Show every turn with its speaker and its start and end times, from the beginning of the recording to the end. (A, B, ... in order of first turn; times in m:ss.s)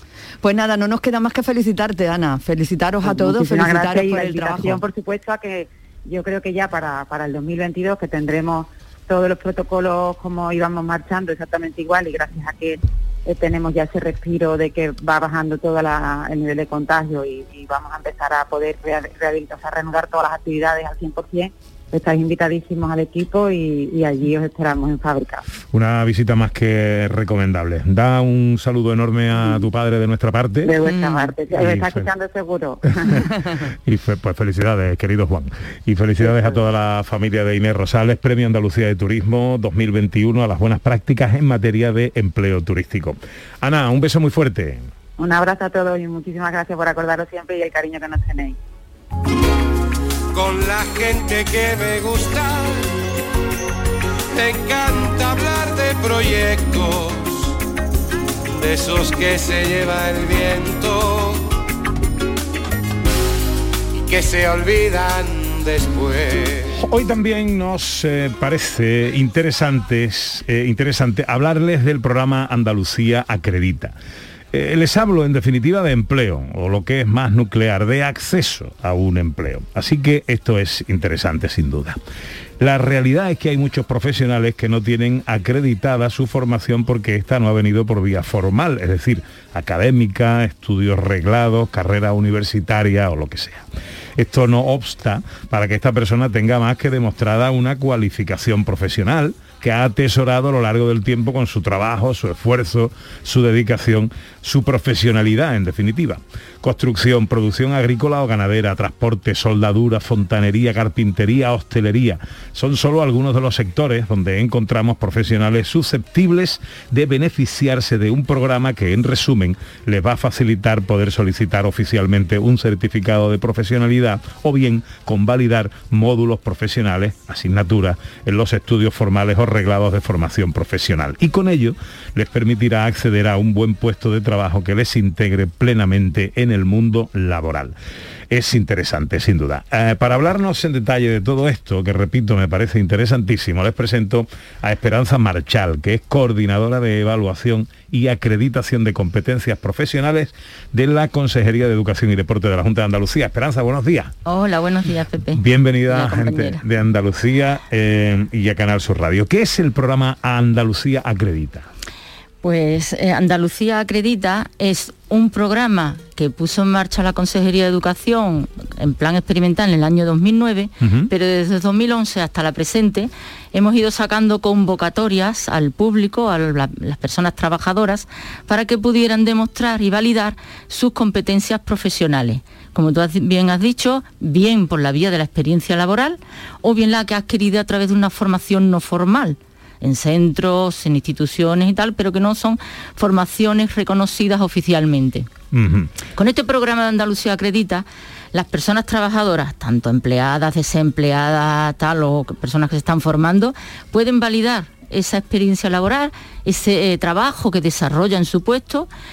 0:00.4-0:04.8 A
0:03.0-0:25.4 B
0:25.7-0:32.1 C
0:30.6-0:33.3 B
0:33.0-0:44.9 C
0:36.2-0:36.6 B
0:45.2-0:48.6 B
0:50.3-0:52.8 D
0:54.3-0:57.5 D
0:58.5-1:01.5 D
1:04.0-1:06.8 D
1:06.8-1:14.0 C
1:14.5-1:22.0 C
1:22.6-1:33.7 C
1:34.2-2:17.7 C
2:18.3-2:34.1 C
2:34.3-2:36.6 E
2:35.3-2:41.7 C
2:42.4-3:15.3 E
2:50.8-2:51.1 C
3:15.5-3:16.0 C
3:16.1-3:28.9 E